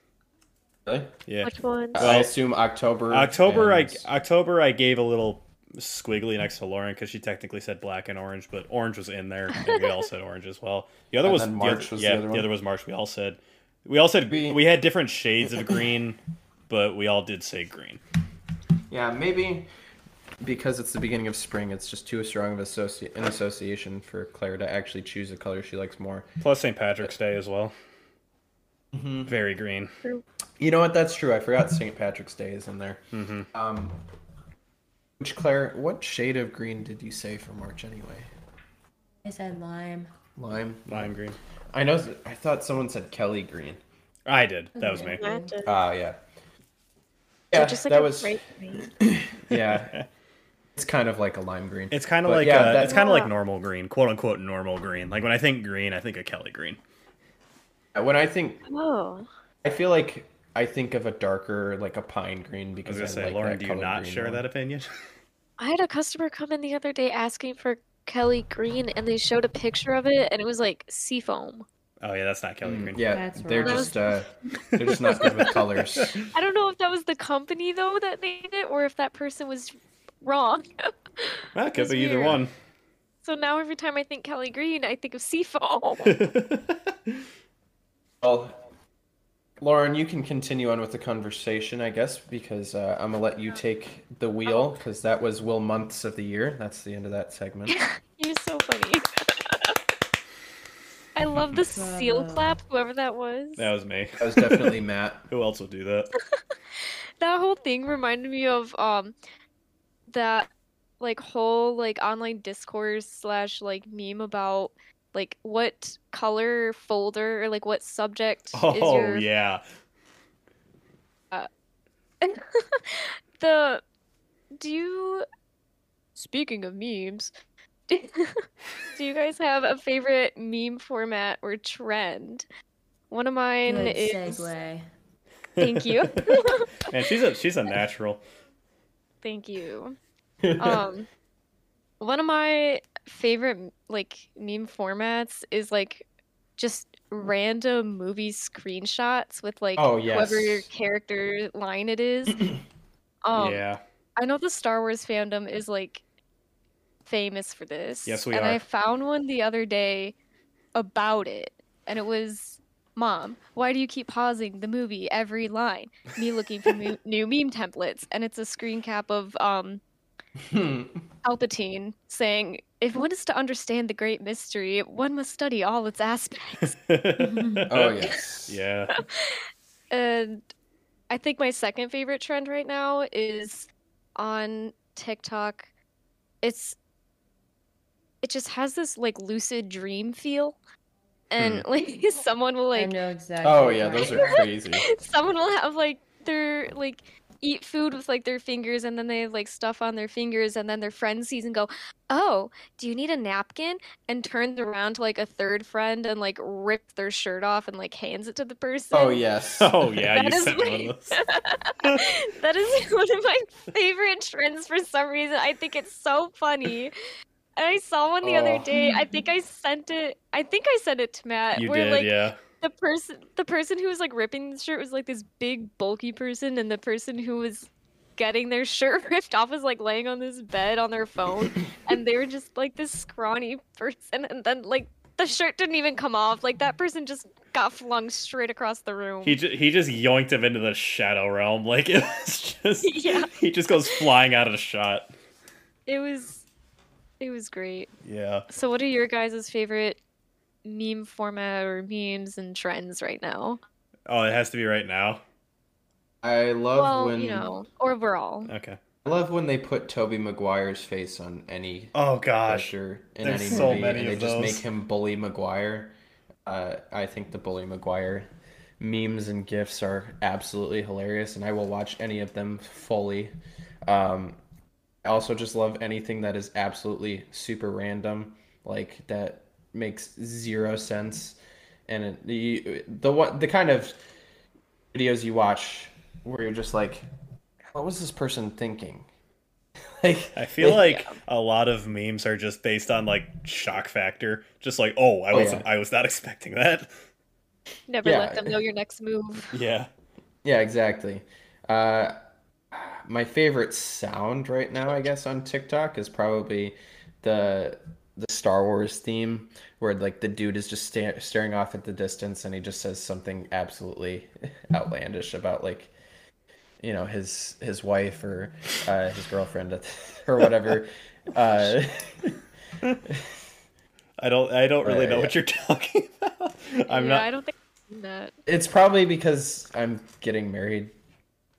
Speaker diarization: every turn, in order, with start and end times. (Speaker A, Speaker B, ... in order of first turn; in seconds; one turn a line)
Speaker A: 0.9-1.1
Speaker B: 1.3-2.4
Speaker C: 1.4-2.1
Speaker A: 1.9-4.1
Speaker B: 3.1-18.0
Speaker A: 11.2-12.5
Speaker A: 14.3-14.6
Speaker A: 18.9-19.7
Speaker A: 20.4-26.3
Speaker B: 26.4-27.7
Speaker A: 28.9-29.4
Speaker B: 29.3-29.9
Speaker A: 30.6-34.0
Speaker B: 33.1-33.5
Speaker A: 35.2-38.3
Speaker D: 39.2-40.1
Speaker A: 40.4-41.1
Speaker B: 40.9-41.4
Speaker A: 41.7-43.8
Speaker B: 44.3-45.2
Speaker D: 44.8-45.5
Speaker C: 45.0-45.7
Speaker A: 45.6-46.2
Speaker A: 47.5-48.4
Speaker C: 47.5-48.9
Speaker A: 49.0-50.0
Speaker B: 49.5-50.1
Speaker A: 50.8-53.0
Speaker B: 51.9-56.8
Speaker C: 52.7-53.3
Speaker A: 58.0-58.6
Speaker C: 58.7-59.3
Speaker A: 59.6-64.5
Speaker B: 62.9-64.9
Speaker C: 65.6-71.7
Speaker B: 72.0-73.2
Speaker A: 72.6-76.2
Speaker D: 73.1-74.0
Speaker C: 73.6-74.0
Speaker B: 74.8-76.3
Speaker C: 75.1-75.6
Speaker C: 76.3-82.4
Speaker B: 81.5-82.5
Speaker C: 83.2-86.1
Speaker B: 86.0-87.2
Speaker A: 88.2-88.5
Speaker A: 89.6-97.8
Speaker C: 94.5-94.8
Speaker C: 97.7-99.8
Speaker C: 101.2-103.7
Speaker D: 101.7-102.6
Speaker B: 103.6-104.7
Speaker A: 104.2-105.3
Speaker B: 105.3-106.1
Speaker C: 106.2-109.2
Speaker C: 110.1-110.5
Speaker C: 111.0-119.3
Speaker B: 118.5-119.6
Speaker C: 122.2-123.8
Speaker C: 124.5-125.2
Speaker C: 126.2-127.3
Speaker C: 127.9-132.5
Speaker C: 133.1-134.5
Speaker D: 133.7-134.9
Speaker B: 135.6-138.2
Speaker C: 135.6-136.9
Speaker C: 139.2-140.0
Speaker A: 140.4-140.8
Speaker C: 140.6-141.1
Speaker C: 142.0-146.1
Speaker C: 146.6-152.6
Speaker A: 149.8-150.7
Speaker C: 153.2-153.6
Speaker B: 153.3-153.8
Speaker C: 154.2-156.0
Speaker C: 157.1-160.2
Speaker B: 158.1-158.6
Speaker C: 160.7-169.8
Speaker A: 170.4-171.0
Speaker C: 171.2-176.8
Speaker B: 176.6-179.0
Speaker D: 177.3-177.6
Speaker A: 177.7-178.6
Speaker C: 178.9-180.5
Speaker C: 181.1-185.7
Speaker C: 186.4-186.8
Speaker C: 188.2-190.6
Speaker C: 191.3-192.9
Speaker B: 191.4-191.7
Speaker D: 192.8-194.4
Speaker A: 193.4-194.9
Speaker C: 194.0-209.2
Speaker A: 208.9-209.9
Speaker B: 209.6-211.2
Speaker C: 210.0-216.9
Speaker C: 217.6-239.4
Speaker A: 218.2-218.7
Speaker D: 218.7-219.1
Speaker B: 221.6-222.4
Speaker B: 239.2-245.1
Speaker C: 242.8-243.3
Speaker C: 245.9-246.4
Speaker C: 247.2-247.9
Speaker B: 248.0-248.5
Speaker C: 248.5-250.0
Speaker C: 250.7-253.6
Speaker B: 254.1-255.2
Speaker A: 256.2-257.5
Speaker C: 256.8-258.5
Speaker B: 258.4-258.8
Speaker A: 259.1-261.9
Speaker B: 261.9-264.7
Speaker A: 262.5-265.9
Speaker A: 266.5-273.3
Speaker A: 273.9-274.4
Speaker A: 275.0-281.4
Speaker A: 281.9-284.0
Speaker A: 284.9-287.1
Speaker A: 287.7-289.1
Speaker A: 290.0-291.0
Speaker B: 290.4-296.9
Speaker C: 290.7-291.2
Speaker A: 295.3-295.7
Speaker C: 297.9-299.5
Speaker A: 298.0-298.6
Speaker B: 299.5-299.9
Speaker A: 300.4-302.2
Speaker A: 302.7-315.9
Speaker A: 316.8-322.3
Speaker B: 324.2-327.3
Speaker A: 324.8-325.4
Speaker C: 326.9-328.3
Speaker A: 328.5-330.9